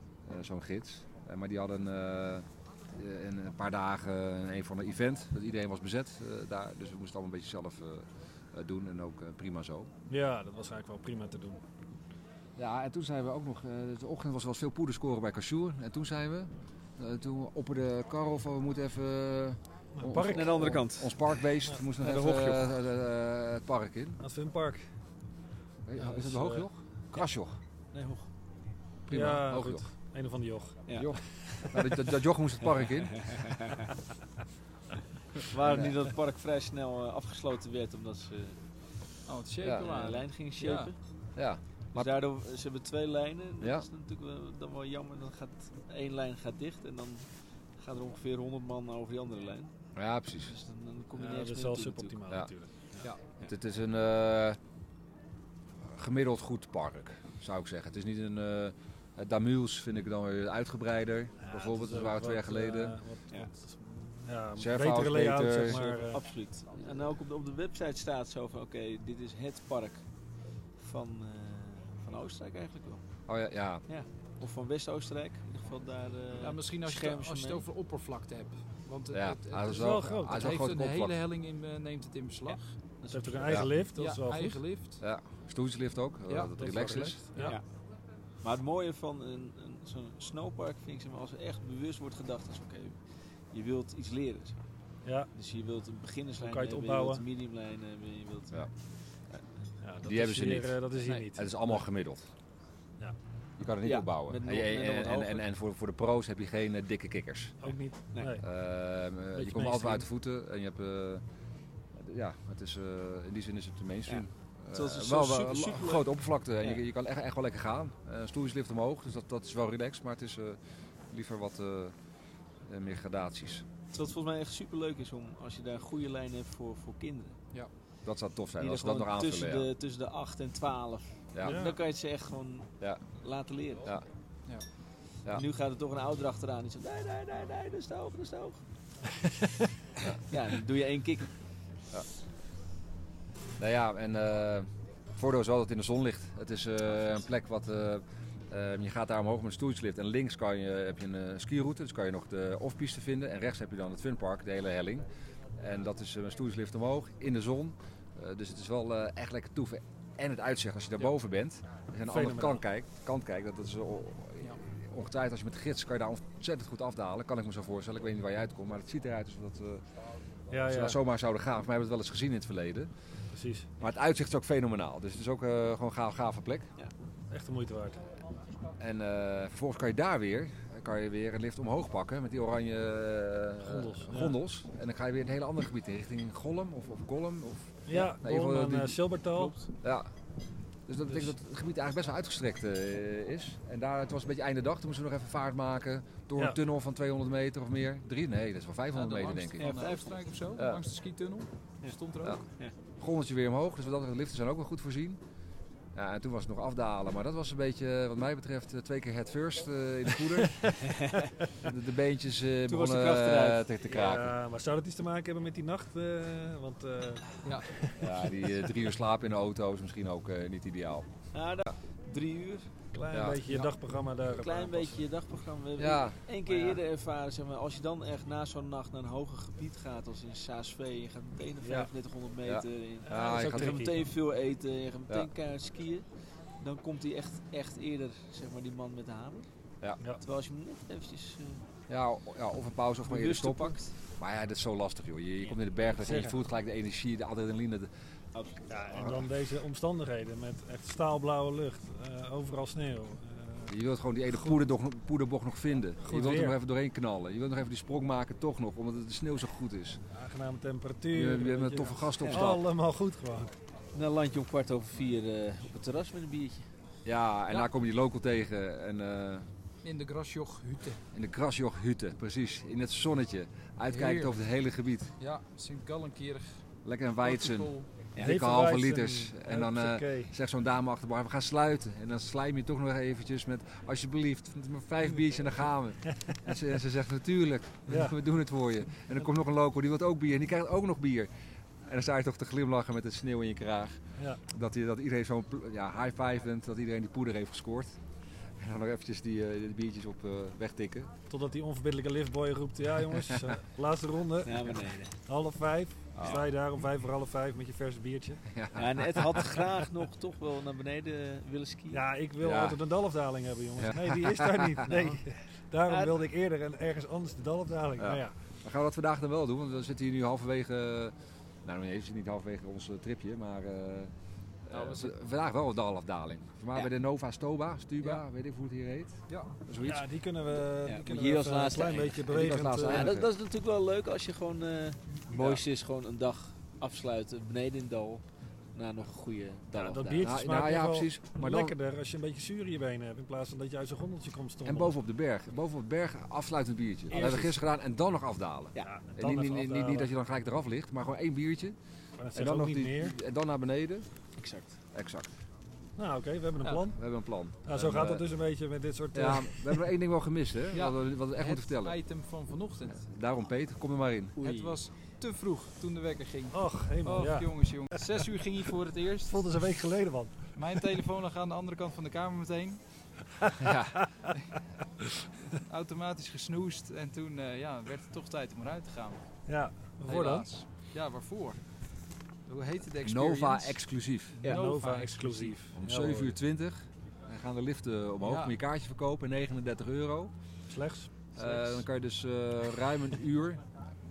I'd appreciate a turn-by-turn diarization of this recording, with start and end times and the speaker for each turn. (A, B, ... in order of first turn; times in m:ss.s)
0:00.2-0:09.9 A
0:10.1-0:11.6 B
0:12.6-0:24.2 A
0:19.9-0:20.7 B
0:20.3-0:21.3 C
0:22.0-0:22.6 C
0:24.2-0:24.8 B
0:25.8-0:27.6 A
0:26.0-0:26.6 B
0:27.9-0:28.3 C
0:29.1-0:29.8 A
0:29.1-0:30.8 B
0:30.9-0:31.1 C
0:30.9-0:33.5 A
0:32.9-0:33.9 C
0:35.5-0:38.6 C
0:35.6-0:36.0 A
0:39.2-0:40.9 D
0:39.6-0:40.0 A
0:39.8-0:41.0 C
0:41.4-0:42.2 A
0:41.9-0:47.3 C
0:43.6-0:43.8 A
0:47.8-0:49.7 C
0:50.0-0:50.5 A
0:50.4-0:52.2 C
0:51.2-0:53.1 B
0:53.4-0:54.6 A
0:55.8-1:03.0 A
1:01.4-1:06.2 B
1:04.6-1:05.8 A
1:05.7-1:10.0 C
1:10.8-1:13.0 C
1:13.3-1:13.8 A
1:13.9-1:17.6 C
1:16.3-1:22.7 D
1:19.1-1:21.2 A
1:19.7-1:20.5 B
1:22.5-1:23.7 C
1:23.1-1:24.6 B
1:23.9-1:25.0 D
1:25.0-1:27.2 A
1:26.3-1:26.5 D
1:26.6-1:27.6 B
1:27.4-1:27.6 C
1:28.4-1:33.0 C
1:33.5-1:34.6 C
1:35.0-1:35.3 B
1:35.3-1:38.7 C
1:36.4-1:37.2 B
1:39.8-1:41.8 B
1:40.0-1:40.8 A
1:41.3-1:42.3 A
1:43.6-1:47.6 A
1:43.8-1:45.4 C
1:47.6-1:48.4 B
1:48.4-1:51.2 A
1:49.3-1:50.0 B
1:51.9-2:00.6 A
1:54.1-1:56.1 C
2:01.1-2:01.9 A
2:02.6-2:03.6 A
2:03.9-2:07.4 C
2:08.0-2:09.7 A
2:08.6-2:13.9 C
2:11.3-2:11.6 A
2:11.4-2:11.8 B
2:15.3-2:18.6 C
2:20.3-2:21.3 C
2:23.6-2:49.8 A
2:42.1-2:42.6 B
2:50.5-2:51.0 B
2:50.7-2:52.9 A
2:53.3-2:53.7 B
2:53.8-2:56.7 A
2:57.3-2:58.0 B
2:58.8-3:09.1 A
3:03.6-3:04.4 B
3:07.9-3:09.6 B
3:09.8-3:10.1 A
3:10.9-3:19.8 A
3:18.9-3:22.4 D
3:19.6-3:20.2 C
3:20.6-3:20.8 A
3:23.0-3:25.2 A
3:25.9-3:30.8 A
3:30.7-3:31.3 C
3:31.6-3:34.3 A
3:32.7-3:33.8 C
3:33.9-3:38.3 B
3:38.0-3:41.1 A
3:41.3-3:42.7 C
3:42.9-3:45.0 B
3:43.1-3:43.4 A
3:44.3-3:56.1 C
3:45.8-3:46.2 A
3:46.5-3:46.8 D
3:51.6-3:51.9 B
3:52.4-3:53.9 A
3:53.0-3:54.1 B
3:56.6-3:59.5 C
4:00.2-4:01.6 C
4:01.9-4:07.9 A
4:03.0-4:03.9 C
4:06.0-4:06.4 B
4:08.3-4:09.1 C
4:08.7-4:13.7 B
4:08.9-4:09.2 A
4:13.7-4:20.0 A
4:16.0-4:16.6 B
4:20.1-4:23.5 B
4:21.1-4:22.7 A
4:23.9-4:26.6 C
4:27.0-4:29.5 A
4:29.8-4:31.0 D
4:31.1-4:35.1 A
4:33.9-4:34.4 D
4:35.2-4:36.6 D
4:36.8-4:51.3 A
4:37.2-4:37.9 D
4:38.2-4:40.3 B
4:47.9-4:48.2 B
4:51.8-4:58.0 A
4:58.6-5:01.1 A
5:01.3-5:08.4 B
5:03.1-5:03.6 A
5:04.4-5:05.1 C
5:06.1-5:06.4 A
5:08.5-5:09.6 A
5:08.7-5:12.0 C
5:11.9-5:18.3 B
5:12.4-5:12.8 A
5:13.8-5:14.9 A
5:14.8-5:15.2 C
5:15.9-5:16.2 C
5:18.0-5:24.1 A
5:24.6-5:30.1 A
5:24.7-5:25.1 D
5:29.3-5:29.5 D
5:29.8-5:33.1 B
5:30.7-5:40.3 C
5:32.3-5:33.3 A
5:35.3-5:35.6 A
5:39.7-5:45.0 B
5:40.2-5:41.7 A
5:44.6-5:51.8 A
5:47.1-5:47.6 B
5:48.8-5:50.1 B
5:52.2-5:53.2 B
5:52.3-5:54.1 A
5:54.4-5:54.7 C
5:54.9-5:55.3 A
5:56.0-5:57.0 B
5:56.9-5:58.2 A
5:57.6-5:59.8 B
5:59.1-6:02.0 A
6:00.7-6:03.1 D
6:03.0-6:04.4 A
6:04.4-6:04.8 C
6:04.4-6:09.4 D
6:06.5-6:07.5 B
6:09.3-6:10.5 B
6:10.6-6:12.8 D
6:13.4-6:14.3 B
6:13.6-6:14.0 A
6:15.5-6:19.2 D
6:19.5-6:20.5 B
6:20.1-6:21.6 D
6:22.5-6:25.6 D
6:23.0-6:24.4 A
6:24.4-6:24.7 C
6:24.4-6:26.4 B
6:25.7-6:30.3 A
6:28.2-6:28.6 D
6:30.7-6:31.1 B
6:31.3-6:33.6 A
6:31.4-6:31.8 D